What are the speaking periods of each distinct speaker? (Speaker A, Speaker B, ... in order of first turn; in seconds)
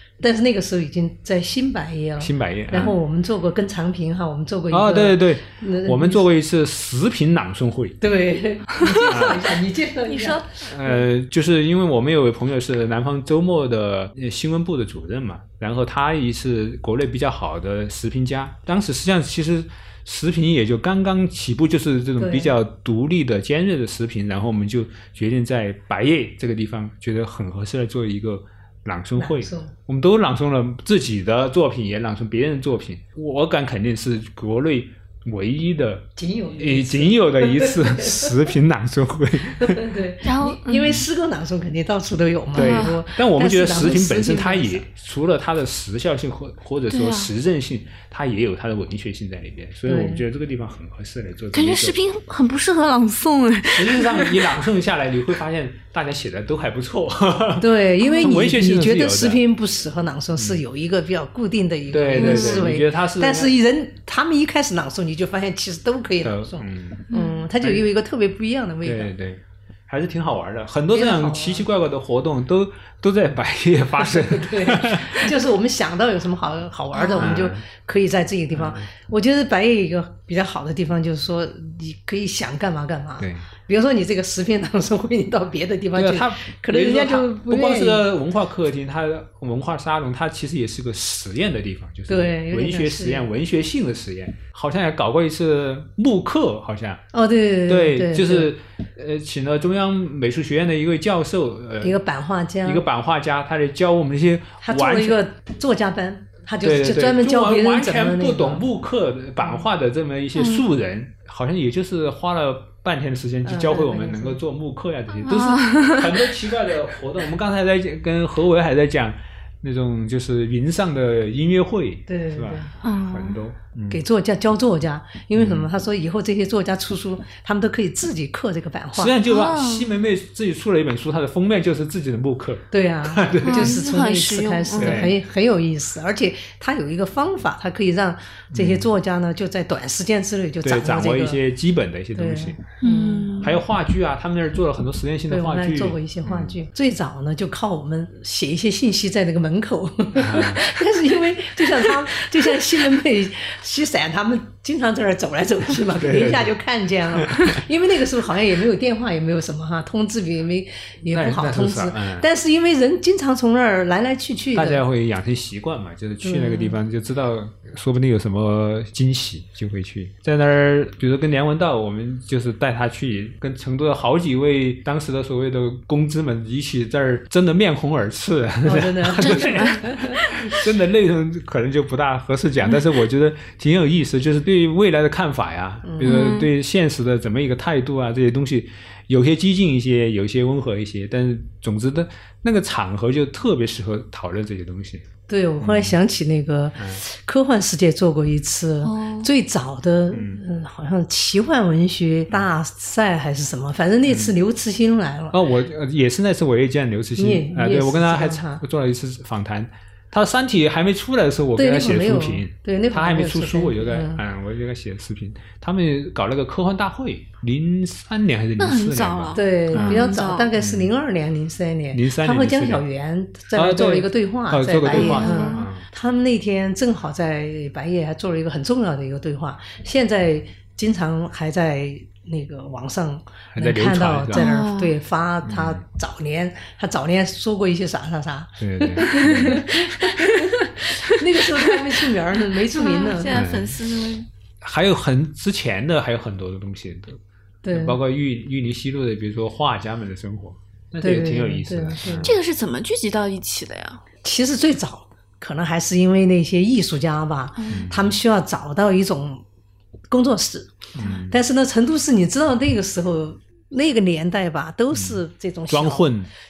Speaker A: 0.2-6.3, 8.0-10.4, 22.2-22.6, 29.1-29.7, 36.2-38.5, 39.5-44.8, 49.9-50.2, 57.6-69.1, 70.9-71.7, 74.0-88.0, 92.1-93.2, 97.1-98.5, 101.8-102.8, 104.6-108.7, 113.4-114.4, 122.1-122.7, 123.9-129.1, 132.7-141.4, 142.1-143.5, 145.3-164.8, 166.2-166.8, 178.6-180.2, 185.8-186.3, 195.3-205.4, 207.2-208.6, 211.6-214.2, 219.3-243.4, 247.6-248.0, 251.0-252.3, 254.2-259.4, 260.1-260.8, 261.3-266.1
Speaker B: 2.2-2.9, 4.7-8.0, 9.0-9.5, 10.6-39.9, 42.5-52.0, 53.7-59.4, 60.4-60.6, 61.9-63.5, 66.2-67.1, 68.8-75.4, 77.2-77.6, 78.5-78.9, 83.2-83.5, 85.9-97.0, 97.7-102.0, 102.6-105.2, 106.6-124.0, 125.3-125.7, 128.9-133.8, 134.8-135.1, 138.5-138.9, 140.6-142.7, 143.4-146.5, 150.2-150.7, 155.9-156.5, 157.1-157.6, 161.1-162.3, 164.5-195.1, 195.6-196.0, 200.1-200.4, 204.1-204.3, 205.3-220.9, 221.9-222.8, 223.5-225.8, 233.5-234.4, 235.4-235.8, 238.6-239.7, 243.3-243.8, 244.6-252.4, 257.7-258.2, 260.9-261.4, 264.9-266.3
Speaker C: 8.9-9.4, 10.0-11.0, 40.2-41.0, 42.5-43.0, 46.9-47.3, 51.5-54.5, 58.0-58.3, 62.1-62.7, 67.1-67.4, 76.9-77.4, 110.4-110.6, 115.2-116.3, 122.8-123.4, 129.2-129.9, 133.4-135.1, 142.8-143.6, 179.2-179.8, 186.0-186.5, 198.8-199.3, 218.6-220.5, 224.9-225.7, 234.3-234.9, 239.2-239.6, 240.3-240.7, 241.6-241.9, 242.5-244.3, 252.2-254.0, 257.6-257.9